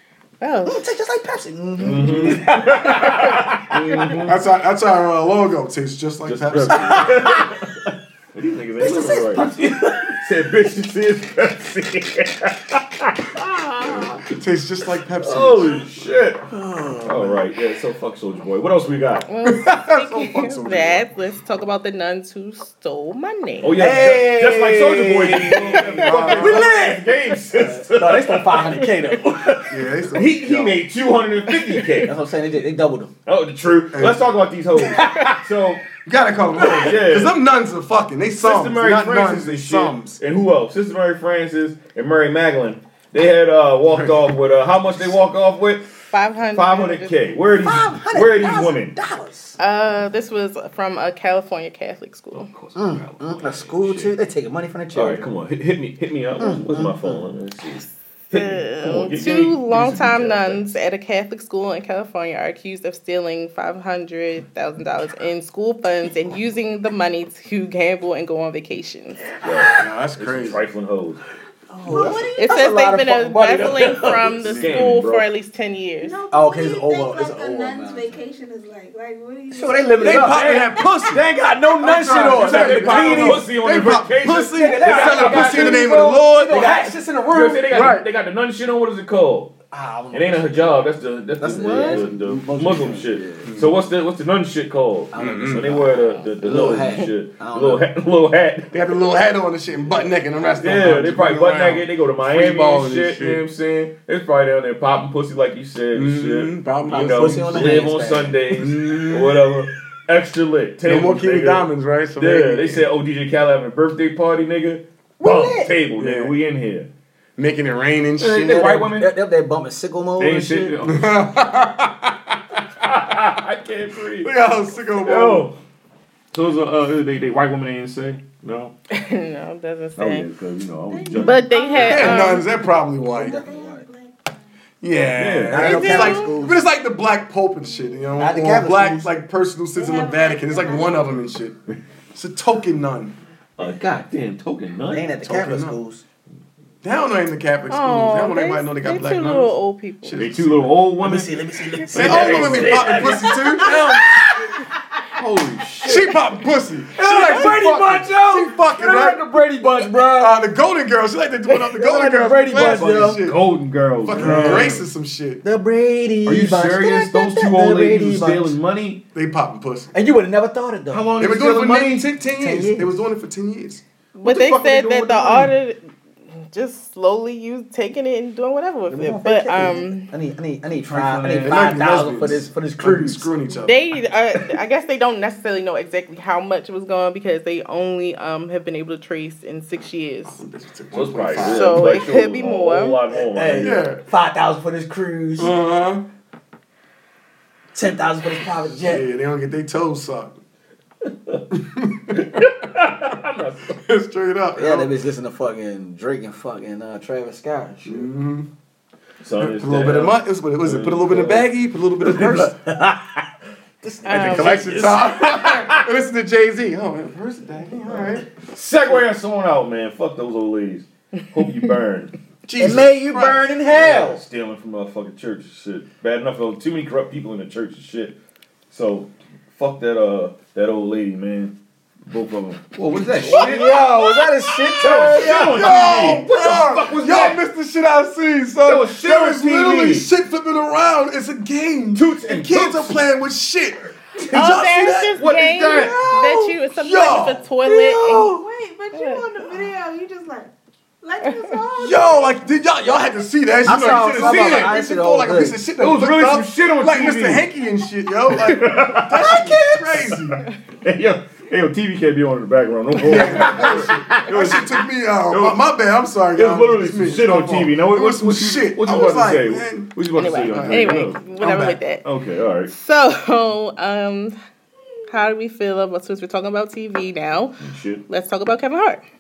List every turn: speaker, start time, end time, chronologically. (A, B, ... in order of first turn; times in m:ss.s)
0:00.4-0:00.9 A
0:00.7-0:04.1 B
0:01.8-0:04.4 C
0:02.0-0:02.4 D
0:04.3-0:07.4 D
0:06.2-0:09.6 C
0:06.7-0:07.5 B
0:08.8-0:10.3 B
0:10.2-0:14.3 C
0:13.9-0:16.1 D
0:15.2-0:16.4 C
0:16.5-0:17.4 B
0:17.0-0:19.3 C
0:19.3-0:23.9 A
0:19.4-0:21.0 D
0:23.6-0:32.1 C
0:23.7-0:29.8 B
0:25.5-0:26.7 D
0:29.7-0:30.8 D
0:32.0-0:33.1 B
0:33.3-0:35.8 C
0:33.9-0:34.3 D
0:36.0-0:40.2 D
0:36.6-0:37.4 C
0:38.4-0:49.0 C
0:43.9-0:44.2 D
0:46.1-0:47.3 A
0:47.6-0:49.6 B
0:49.6-0:52.5 A
0:52.3-0:54.2 C
0:52.8-0:55.3 B
0:54.9-1:00.8 C
0:56.4-0:57.3 B
0:58.3-1:09.4 A
1:09.4-1:11.2 C
1:09.4-1:09.9 B
1:09.8-1:10.6 D
1:11.7-1:14.5 B
1:11.9-1:12.7 E
1:12.4-1:16.2 A
1:13.5-1:15.3 C
1:14.4-1:15.0 D
1:16.0-1:20.9 E
1:16.3-1:18.2 B
1:19.5-1:23.5 B
1:20.0-1:21.2 D
1:21.8-1:26.9 D
1:22.0-1:29.5 C
1:24.5-1:28.0 B
1:27.7-1:28.0 D
1:29.7-1:33.5 B
1:30.1-1:38.7 C
1:33.4-1:33.7 D
1:35.1-1:37.9 B
1:35.2-1:35.8 D
1:38.7-1:43.4 D
1:39.9-1:40.7 B
1:40.6-1:56.9 C
1:45.9-1:47.9 D
1:46.9-1:48.4 B
1:48.5-1:49.6 D
1:50.8-1:52.8 D
1:55.2-1:55.8 B
1:56.0-1:56.3 D
1:57.4-1:58.9 D
1:58.2-1:59.2 C
1:58.4-2:00.8 B
2:00.2-2:01.2 C
2:00.8-2:02.4 D
2:02.8-2:04.3 C
2:04.2-2:05.5 D
2:05.0-2:05.6 C
2:06.3-2:08.7 C
2:08.9-2:10.3 A
2:10.0-2:11.5 C
2:10.9-2:14.4 E
2:11.1-2:12.5 A
2:11.7-2:13.4 D
2:13.0-2:13.9 B
2:14.8-2:21.6 D
2:15.1-2:16.0 C
2:15.5-2:16.6 B
2:15.6-2:16.3 A
2:18.2-2:19.1 B
2:19.8-2:21.2 E
2:22.1-2:23.2 D
2:23.6-2:25.1 C
2:24.9-2:26.0 B
2:25.2-2:25.8 D
2:26.8-2:30.8 D
2:27.7-2:30.2 A
2:30.2-2:33.2 C
2:31.0-2:34.7 B
2:31.9-2:34.2 D
2:35.2-2:36.2 C
2:35.8-2:39.3 D
2:36.9-2:40.5 B
2:39.9-2:43.4 D
2:41.5-2:43.2 B
2:42.5-2:44.9 C
2:44.0-2:45.4 D
2:44.1-2:44.8 B
2:45.4-2:48.6 B
2:46.2-2:49.0 C
2:49.1-2:49.9 D
2:49.9-2:51.1 B
2:50.9-2:52.1 C
2:51.2-2:53.8 D
2:52.3-2:52.9 B
2:54.2-2:55.9 A
2:54.2-2:55.5 C
2:56.5-3:00.1 A
2:58.9-3:03.3 B
3:00.9-3:01.9 C
3:01.4-3:03.9 D
3:03.6-3:10.4 A
3:10.3-3:12.0 D
3:10.9-3:13.9 C
3:11.4-3:13.1 A
3:13.1-3:15.6 B
3:13.6-3:14.0 D
3:15.4-3:16.0 D
3:17.7-3:19.1 B
3:18.8-3:20.4 D
3:21.1-3:21.4 C
3:21.5-3:22.3 D
3:22.2-3:23.8 C
3:23.8-3:24.9 D
3:24.6-3:28.1 B
3:27.8-3:28.5 D
3:29.2-3:31.5 C
3:29.4-3:32.6 D
3:32.0-3:33.1 B
3:33.8-3:34.9 B
3:34.0-3:34.8 A
3:34.1-3:38.4 D
3:34.2-3:35.8 C
3:37.9-3:42.1 C
3:42.5-3:43.5 D
3:42.6-3:44.2 B
3:43.7-3:48.2 C
3:48.7-3:51.6 C
3:52.1-3:53.8 C
3:52.9-3:56.1 B
3:53.3-3:53.9 D
3:54.8-3:57.4 C
3:54.8-4:04.9 D
3:58.6-4:00.1 C
4:02.0-4:03.0 C
4:04.3-4:08.4 A
4:04.3-4:06.6 B
4:05.2-4:06.0 C
4:06.7-4:07.4 D
4:07.6-4:08.4 B
4:08.2-4:12.3 E
4:08.9-4:09.2 A
4:11.8-4:20.4 D
4:13.6-4:15.6 B
4:13.7-4:14.8 C
4:15.8-4:17.4 C
4:18.3-4:19.5 C
4:19.2-4:19.8 B
4:20.8-4:25.6 C
4:23.0-4:31.8 D
4:23.2-4:23.7 B
4:26.3-4:31.5 C
4:30.1-4:32.0 A
4:32.0-4:32.7 C
4:32.7-4:34.4 A
4:35.1-4:39.0 A
4:37.6-4:38.0 C